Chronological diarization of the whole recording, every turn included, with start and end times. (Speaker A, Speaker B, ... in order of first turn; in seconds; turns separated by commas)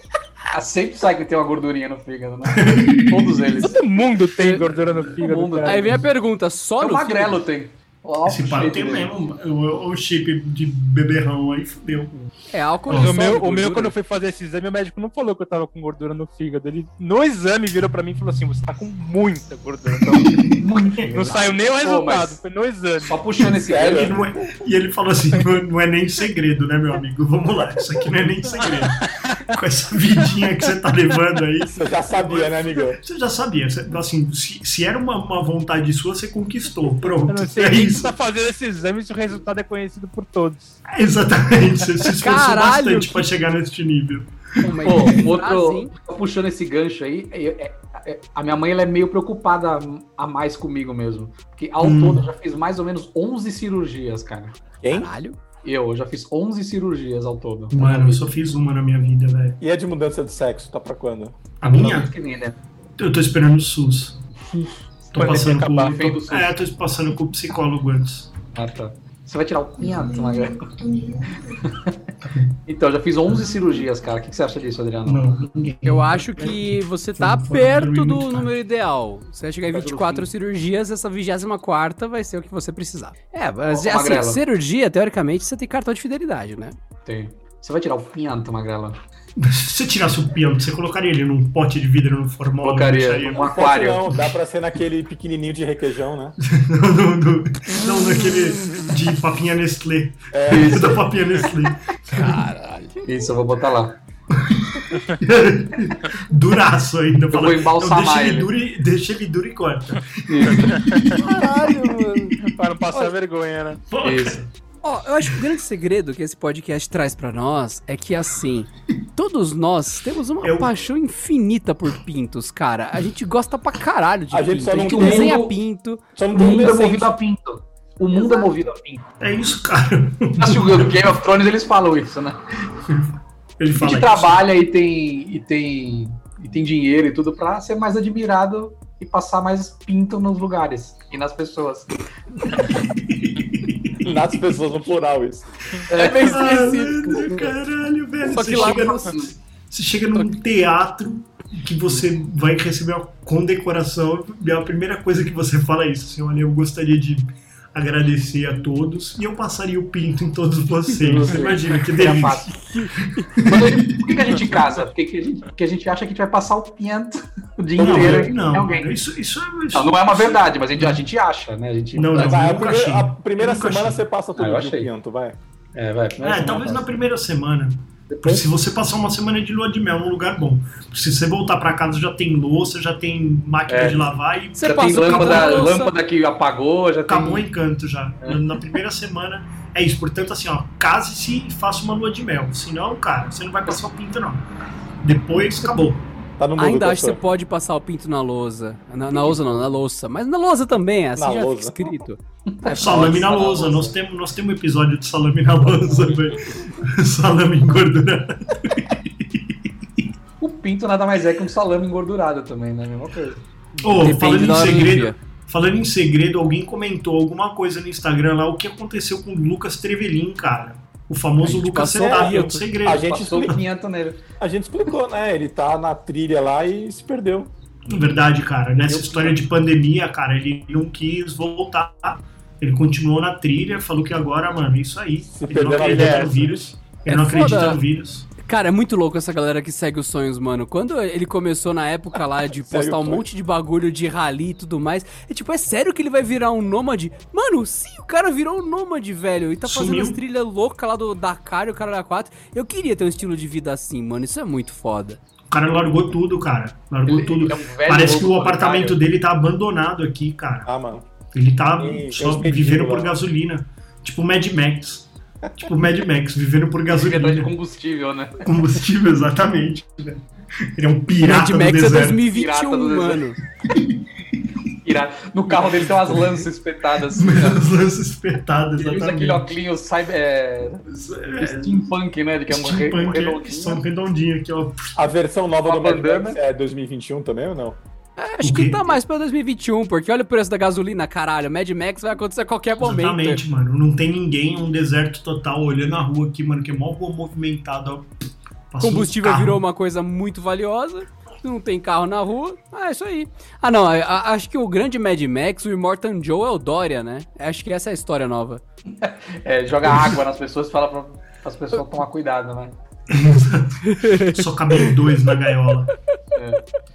Speaker A: 0.5-3.8, Speaker B: 2.5-3.6, Speaker C: 3.6-6.0, Speaker A: 5.1-6.0, Speaker D: 5.6-7.4, Speaker A: 6.8-9.1, Speaker B: 8.2-12.3, Speaker D: 12.5-13.9, Speaker B: 12.9-13.2, Speaker C: 12.9-20.4, Speaker A: 20.0-22.4, Speaker B: 20.4-21.0, Speaker C: 21.1-23.2, Speaker A: 23.0-24.1, Speaker E: 23.6-24.3, Speaker B: 23.8-38.1, Speaker E: 31.6-33.0, Speaker C: 37.3-40.8, Speaker B: 40.9-44.3, Speaker D: 42.2-43.3, Speaker D: 44.6-45.9, Speaker A: 44.8-54.6, Speaker B: 44.9-45.2, Speaker B: 51.8-52.2, Speaker E: 54.8-55.1, Speaker D: 54.9-55.4, Speaker A: 55.6-58.2, Speaker B: 57.7-59.6, Speaker E: 59.6-61.4, Speaker B: 61.6-62.1, Speaker A: 61.6-62.5, Speaker B: 63.0-64.2, Speaker B: 65.1-68.3, Speaker A: 65.1-66.5, Speaker C: 65.2-65.9, Speaker A: 68.5-70.7, Speaker B: 69.9-71.5, Speaker A: 71.5-72.0, Speaker B: 72.2-72.5, Speaker A: 72.7-75.3, Speaker B: 75.0-78.5, Speaker D: 75.8-86.8, Speaker A: 79.7-80.3, Speaker A: 83.7-84.4, Speaker A: 87.0-89.0, Speaker B: 89.4-93.5, Speaker A: 92.6-94.0, Speaker E: 93.3-96.3, Speaker B: 96.4-102.3, Speaker E: 100.3-101.0, Speaker A: 100.5-101.0, Speaker D: 102.1-103.0, Speaker A: 103.0-104.0, Speaker B: 104.3-111.2, Speaker A: 107.3-108.5, Speaker A: 110.3-110.8, Speaker C: 110.7-111.2, Speaker D: 111.2-112.3, Speaker C: 112.4-113.8, Speaker B: 113.9-114.5, Speaker A: 114.0-114.4, Speaker D: 114.8-126.0, Speaker B: 120.4-120.7, Speaker E: 124.3-125.5, Speaker A: 124.9-125.5, Speaker E: 126.2-127.1, Speaker A: 126.3-129.0, Speaker D: 128.1-128.4, Speaker B: 129.2-131.0, Speaker A: 130.4-132.4, Speaker B: 132.9-134.4, Speaker A: 133.8-142.8, Speaker B: 142.7-144.0, Speaker E: 144.0-145.5, Speaker A: 145.9-147.5, Speaker D: 145.9-147.2, Speaker B: 146.0-164.6, Speaker D: 148.3-149.2, Speaker A: 148.3-149.3, Speaker A: 161.0-162.5, Speaker D: 162.6-162.9, Speaker A: 163.4-168.9, Speaker B: 167.8-171.0, Speaker A: 169.7-172.5, Speaker B: 171.9-174.0, Speaker E: 172.2-175.4, Speaker A: 174.4-174.9, Speaker A: 175.7-176.9, Speaker B: 176.2-185.7, Speaker A: 178.1-178.4, Speaker A: 183.7-187.5, Speaker D: 184.6-185.9, Speaker B: 187.1-194.4, Speaker B: 195.0-196.0, Speaker E: 196.4-197.2, Speaker D: 196.6-202.2, Speaker E: 201.2-201.9, Speaker A: 202.5-203.9, Speaker B: 202.7-209.4, Speaker A: 210.4-213.4, Speaker D: 213.8-215.2, Speaker B: 213.8-223.1, Speaker D: 221.4-222.6, Speaker E: 221.9-223.6, Speaker A: 222.8-224.2, Speaker E: 224.4-227.5, Speaker B: 227.9-238.3, Speaker A: 228.8-229.4, Speaker E: 235.3-236.5, Speaker C: 235.8-236.4, Speaker D: 237.1-237.8, Speaker D: 238.4-255.2, Speaker E: 242.6-243.2, Speaker B: 249.6-250.2, Speaker B: 255.5-260.7, Speaker A: 257.1-259.0, Speaker E: 260.6-261.1, Speaker B: 261.3-267.5, Speaker E: 261.8-263.1, Speaker A: 266.9-268.4, Speaker B: 268.4-270.2, Speaker B: 270.8-272.2, Speaker D: 271.1-273.4, Speaker A: 272.2-273.2, Speaker B: 273.6-273.9, Speaker A: 274.8-277.6, Speaker B: 275.5-276.4, Speaker B: 277.1-279.5, Speaker A: 278.8-283.8, Speaker B: 280.9-281.9, Speaker B: 282.5-284.9, Speaker E: 284.9-287.8, Speaker A: 285.6-286.4, Speaker D: 288.2-293.4, Speaker B: 288.4-289.0, Speaker B: 292.8-298.1, Speaker B: 298.7-299.6, Speaker D: 298.8-308.6, Speaker A: 309.0-312.7, Speaker B: 313.1-315.9, Speaker D: 313.8-314.9, Speaker A: 316.4-316.6